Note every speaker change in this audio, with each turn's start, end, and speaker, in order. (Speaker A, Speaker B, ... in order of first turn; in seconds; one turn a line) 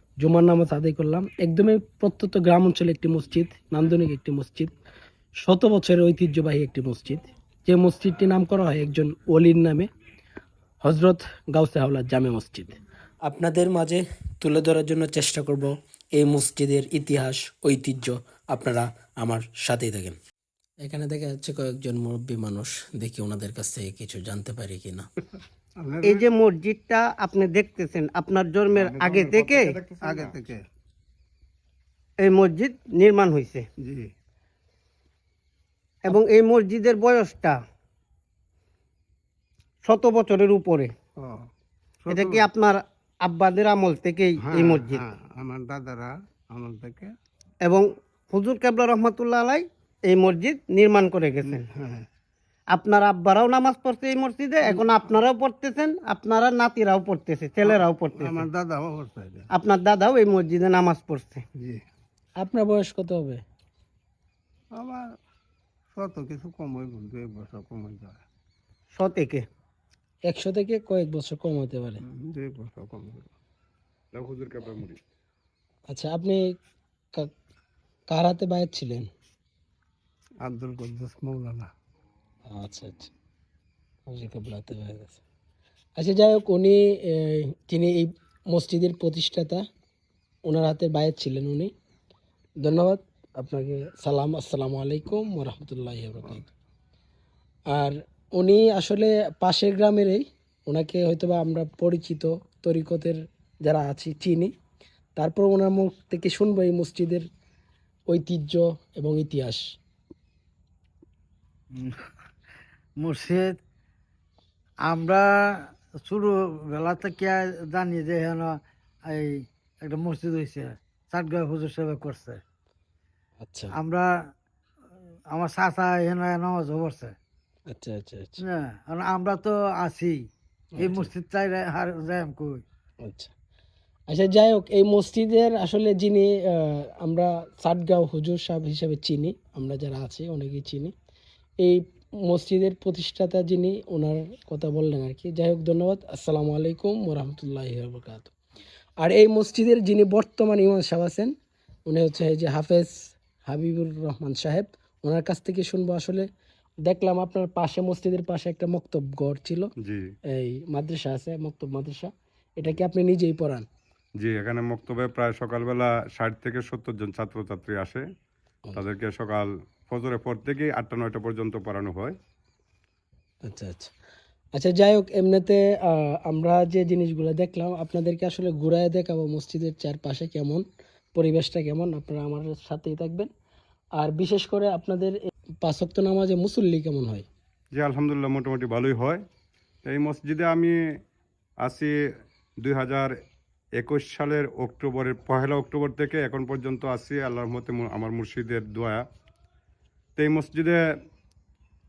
Speaker A: 0.2-4.7
Speaker A: 5.4-9.9
Speaker A: 10.8-20.2
Speaker A: 20.8-25.1
Speaker B: 25.8-26.3
Speaker C: 26.0-29.8
Speaker D: 29.0-30.4
Speaker B: 30.0-30.6
Speaker C: 32.2-33.7
Speaker B: 33.8-34.1
Speaker C: 36.0-37.6
Speaker C: 39.8-40.9
Speaker B: 41.2-41.5
Speaker B: 42.0-42.5
Speaker C: 42.1-45.0
Speaker B: 44.4-47.1
Speaker C: 47.6-51.7
Speaker B: 51.5-52.1
Speaker C: 52.7-58.5
Speaker B: 57.6-59.5
Speaker C: 59.5-61.4
Speaker B: 61.6-61.8
Speaker A: 62.4-63.4
Speaker B: 64.8-65.1
Speaker B: 66.0-68.2
Speaker C: 69.0-69.5
Speaker A: 70.3-72.0
Speaker B: 72.1-73.3
Speaker D: 74.1-75.0
Speaker A: 75.9-76.4
Speaker A: 78.1-79.1
Speaker B: 80.4-81.7
Speaker A: 82.5-83.1
Speaker A: 84.1-85.2
Speaker A: 86.0-89.7
Speaker A: 90.5-91.7
Speaker A: 92.6-96.5
Speaker A: 97.7-104.5
Speaker A: 105.2-107.3
Speaker A: 108.1-109.6
Speaker E: 111.7-112.1
Speaker E: 113.0-113.6
Speaker E: 114.8-122.4
Speaker A: 123.4-123.8
Speaker E: 123.7-124.3
Speaker E: 125.3-127.2
Speaker A: 127.7-128.4
Speaker E: 128.4-130.3
Speaker A: 130.8-131.1
Speaker E: 130.8-132.6
Speaker A: 133.1-133.3
Speaker A: 134.1-140.9
Speaker A: 141.6-148.3
Speaker A: 149.0-151.3
Speaker A: 151.9-156.3
Speaker A: 156.8-159.7
Speaker A: 160.3-163.7
Speaker D: 164.2-168.0
Speaker D: 168.8-172.2
Speaker A: 173.4-173.9
Speaker A: 174.6-183.3
Speaker A: 184.0-187.3
Speaker D: 187.8-189.2
Speaker D: 189.8-190.7
Speaker D: 191.6-191.9
Speaker D: 192.6-193.1
Speaker D: 193.8-199.0
Speaker D: 200.2-200.8